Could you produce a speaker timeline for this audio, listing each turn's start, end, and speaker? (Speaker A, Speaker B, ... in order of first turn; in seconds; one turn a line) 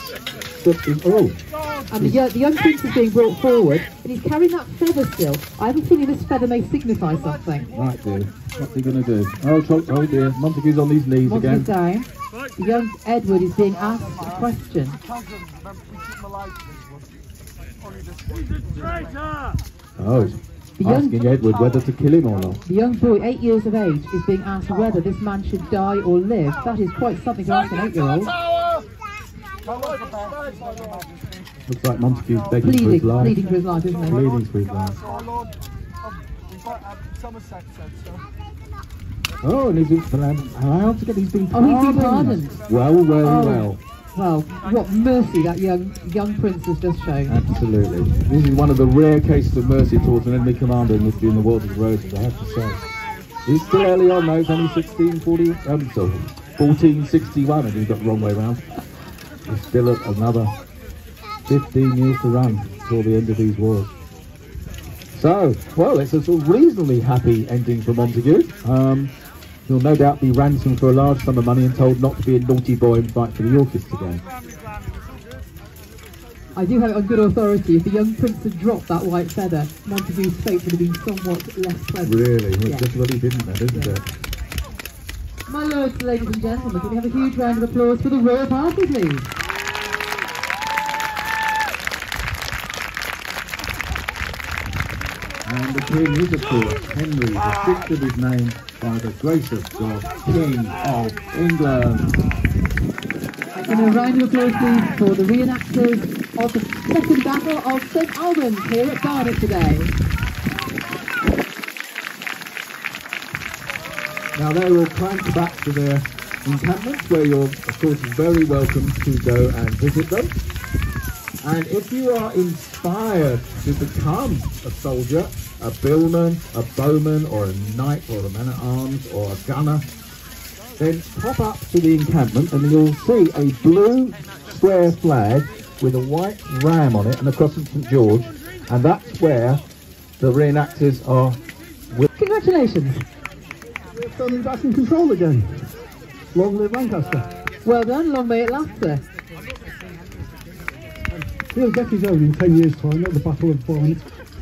Speaker A: 0.6-2.2
Speaker B: 1.9-7.7
Speaker A: 7.7-11.7
Speaker B: 11.2-15.0
Speaker A: 20.0-22.6
Speaker B: 20.8-21.2
Speaker B: 22.6-28.4
Speaker A: 31.7-35.0
Speaker B: 32.6-34.2
Speaker A: 39.4-43.8
Speaker B: 41.5-42.6
Speaker B: 43.2-47.4
Speaker A: 47.3-52.8
Speaker A: 53.5-60.5
Speaker A: 61.5-63.9
Speaker A: 65.1-69.1
Speaker A: 69.7-74.2
Speaker B: 76.5-83.0
Speaker A: 82.0-84.1
Speaker B: 83.7-84.0
Speaker B: 85.5-89.3
Speaker A: 95.4-102.3
Speaker B: 103.5-109.9
Speaker A: 114.3-120.3
Speaker A: 121.4-129.9
Speaker A: 130.8-139.6
Speaker A: 140.2-142.1
Speaker B: 142.2-143.1
Speaker C: 143.9-145.8
Speaker C: 146.3-147.3
Speaker B: 147.6-149.0
Speaker C: 151.1-154.1